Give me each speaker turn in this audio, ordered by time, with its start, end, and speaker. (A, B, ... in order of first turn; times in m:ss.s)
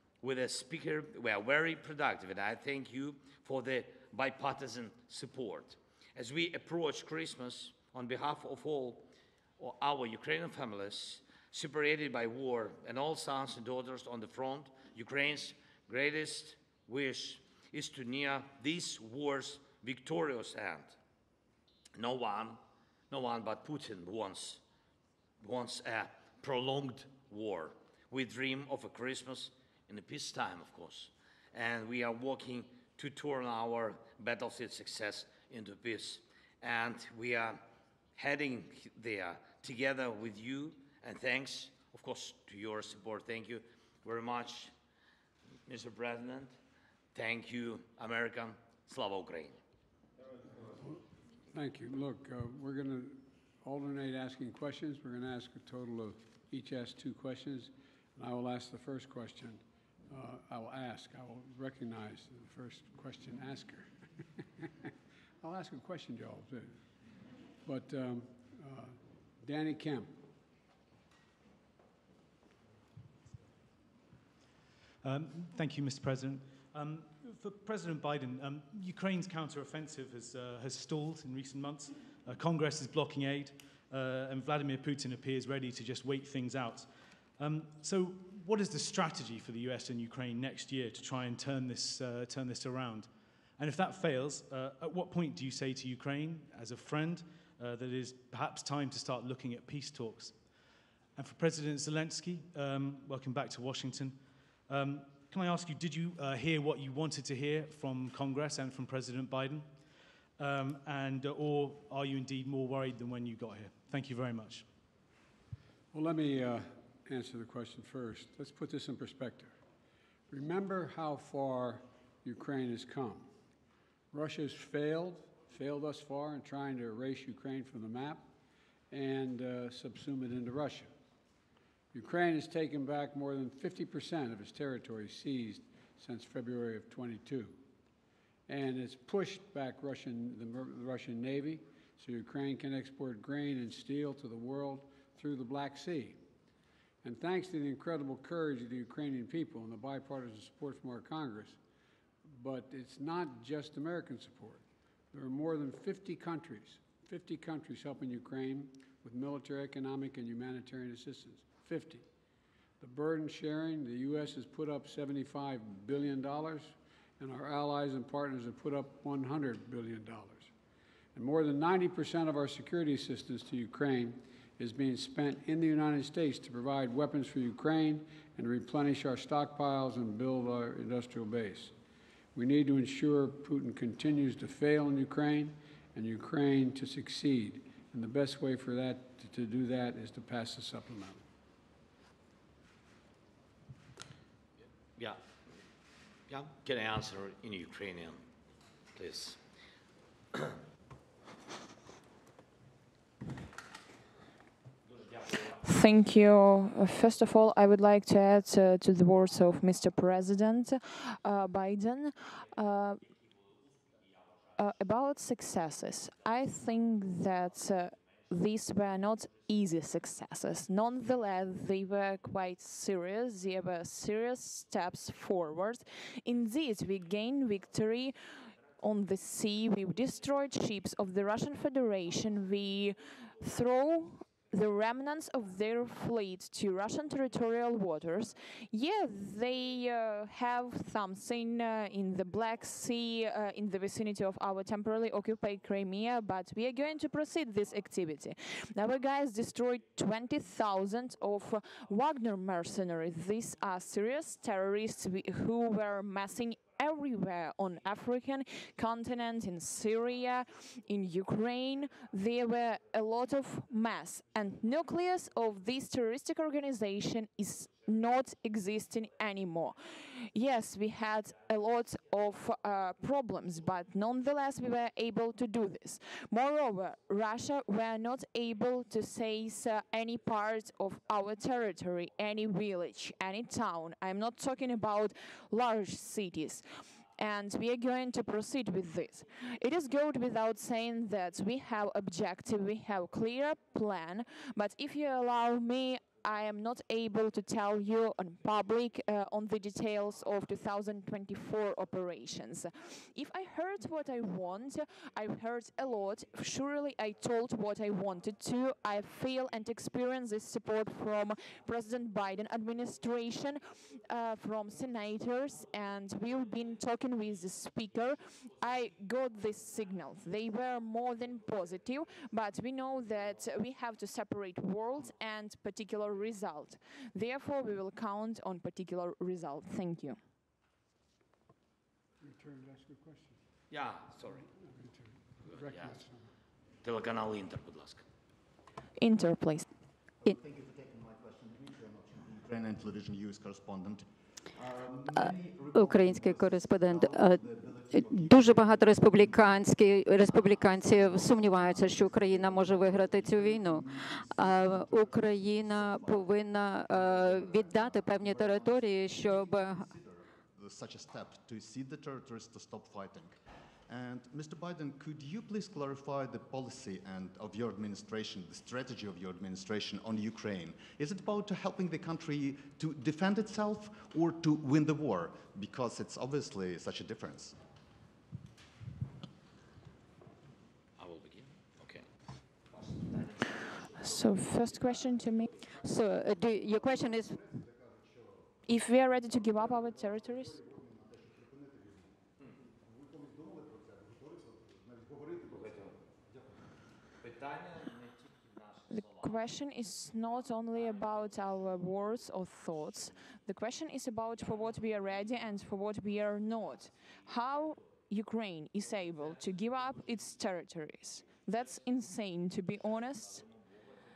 0:00.2-0:09.1 A
0:09.6-0:21.0 A
0:22.0-0:24.6 A
0:25.4-0:37.6 A
0:38.2-0:44.7 A
0:45.7-0:46.5 A
0:47.1-0:49.6 A
0:50.6-0:51.0 B
0:51.5-1:06.8 B
1:07.6-1:10.2 B
1:15.0-1:40.4 C
1:41.2-1:49.7 C
1:50.4-1:54.7 C
1:55.9-1:59.5 B
2:00.3-2:03.3 B
2:04.1-2:08.3 B
2:08.9-2:10.9 B
2:11.9-2:17.6 B
2:18.5-2:26.2 B
2:27.0-2:31.6 B
2:32.2-2:42.1 B
2:42.8-2:50.5 B
2:51.2-3:01.7 B
3:02.4-3:11.2 B
3:16.3-3:18.2 A
3:19.0-3:19.4 A
3:24.9-3:25.6 A
3:25.6-3:33.0 D
3:34.6-3:48.2 D
3:48.8-5:30.2 D
5:32.2-5:33.4 B
5:33.7-5:34.5 A
5:34.3-5:36.3 B
5:35.4-5:36.0 A
5:36.8-5:38.0 A
5:39.0-5:39.7 D
5:40.2-6:17.6 E
5:45.2-5:59.9 F
6:21.0-6:22.1 A
6:23.1-6:24.3 A
6:24.0-6:25.5 D
6:25.8-6:27.4 F
6:26.7-6:27.6 E
6:28.7-6:30.6 D
6:30.6-6:31.9 E
6:34.7-6:35.2 E
6:35.6-6:35.9 A
6:37.2-6:39.4 A
6:38.9-6:53.4 D
6:40.8-6:41.5 A